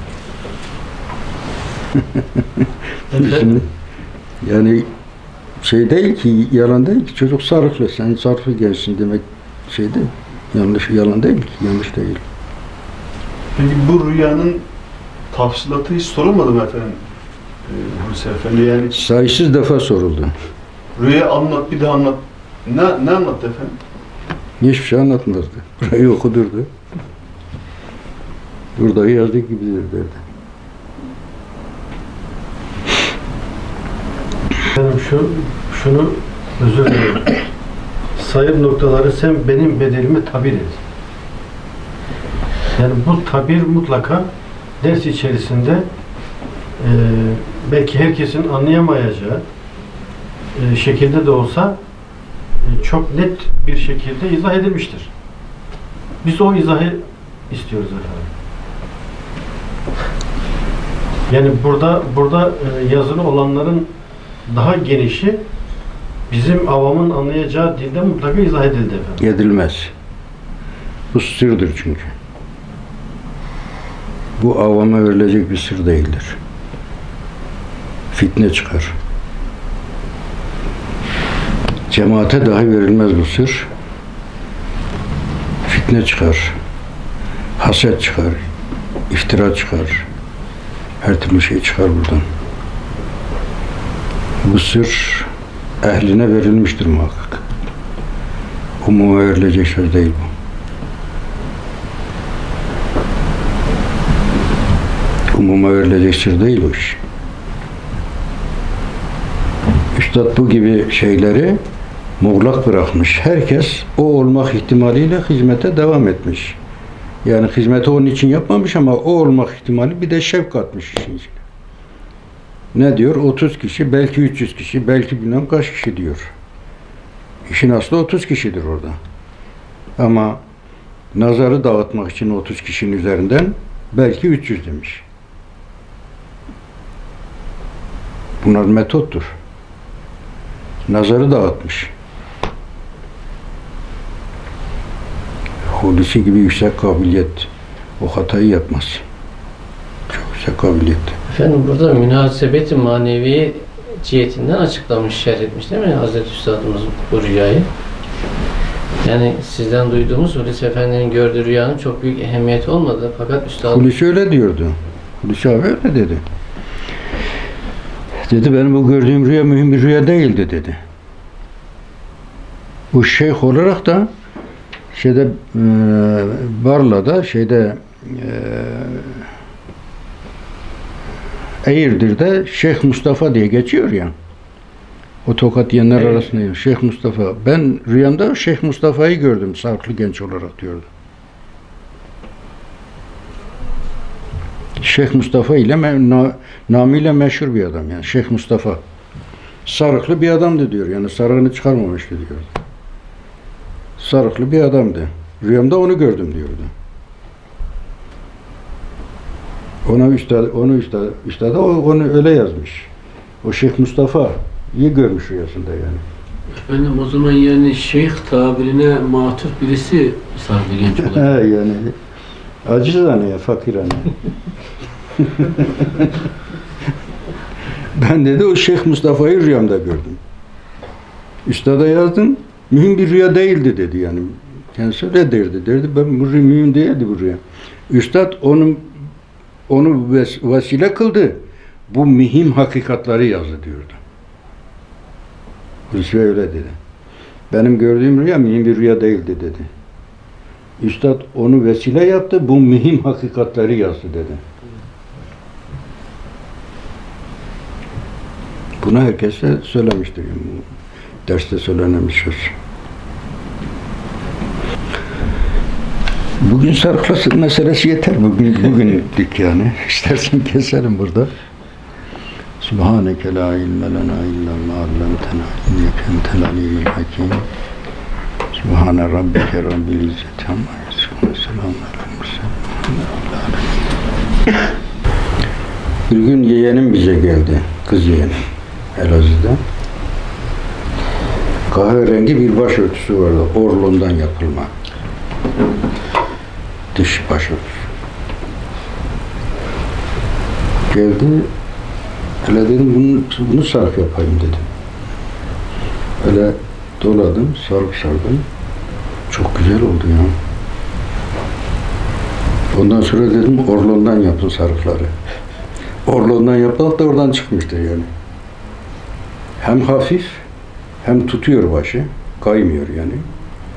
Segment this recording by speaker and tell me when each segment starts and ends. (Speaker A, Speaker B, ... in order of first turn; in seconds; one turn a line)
Speaker A: 1.9-3.7
Speaker B: 3.1-3.6
Speaker A: 4.4-4.9
Speaker A: 5.6-12.2
Speaker C: 13.6-14.6
Speaker C: 15.3-17.0
Speaker C: 17.6-18.9
Speaker A: 18.9-20.3
Speaker C: 20.9-23.8
Speaker A: 24.6-26.7
Speaker A: 28.8-30.2
Speaker B: 34.7-37.4
Speaker B: 38.2-40.8
Speaker B: 42.8-44.3
Speaker B: 44.8-45.9
Speaker B: 46.8-49.4
Speaker B: 50.5-51.8
Speaker B: 52.6-55.1
Speaker B: 56.2-58.3
Speaker B: 61.3-63.9
Speaker B: 64.5-65.4
Speaker B: 66.3-69.2
Speaker A: 69.2-69.9
Speaker A: 71.1-72.1
Speaker A: 74.4-76.4
Speaker A: 78.1-79.0
Speaker A: 81.9-83.7
Speaker A: 85.7-86.6
Speaker A: 87.6-88.5
Speaker A: 89.1-90.1
Speaker A: 91.0-92.2
Speaker A: 94.4-95.3
Speaker A: 95.8-97.4
Speaker A: 98.8-100.3
Speaker A: 105.3-107.0
Speaker A: 109.9-111.6
Speaker A: 112.2-116.6
Speaker A: 117.2-121.4
Speaker A: 122.7-126.3
Speaker A: 127.5-129.0
Speaker A: 130.0-130.4
Speaker A: 131.1-135.1
Speaker A: 138.4-139.3
Speaker A: 140.9-141.9
Speaker A: 145.7-149.0
Speaker A: 150.1-151.2
Speaker D: 151.3-157.7
Speaker D: 159.0-163.8
Speaker A: 163.6-166.2
Speaker A: 168.2-170.8
Speaker A: 172.9-174.1
Speaker A: 174.9-179.3
Speaker A: 181.6-184.1
Speaker A: 185.2-190.9
Speaker A: 194.8-198.8
Speaker A: 199.7-202.5
Speaker A: 204.0-206.7
Speaker A: 209.8-212.9
Speaker A: 213.4-216.0
Speaker E: 216.5-221.4
Speaker A: 221.0-222.0
Speaker A: 222.6-224.1
Speaker A: 225.2-226.1
Speaker A: 227.9-230.2
Speaker A: 231.5-238.9
Speaker A: 239.7-244.0
Speaker A: 245.9-246.8
Speaker A: 247.5-249.7
Speaker A: 250.8-254.4
Speaker A: 258.8-260.7
Speaker A: 261.3-262.6
Speaker A: 266.4-271.3
Speaker A: 272.6-277.5
Speaker A: 278.5-283.9
Speaker A: 286.1-289.6
Speaker A: 291.7-294.7
Speaker A: 296.9-297.9
Speaker A: 300.9-301.5
Speaker A: 302.4-304.7
Speaker A: 306.2-308.5
Speaker A: 309.3-310.4
Speaker A: 312.7-315.1
Speaker A: 316.1-318.1
Speaker A: 319.6-320.4
Speaker A: 321.0-323.2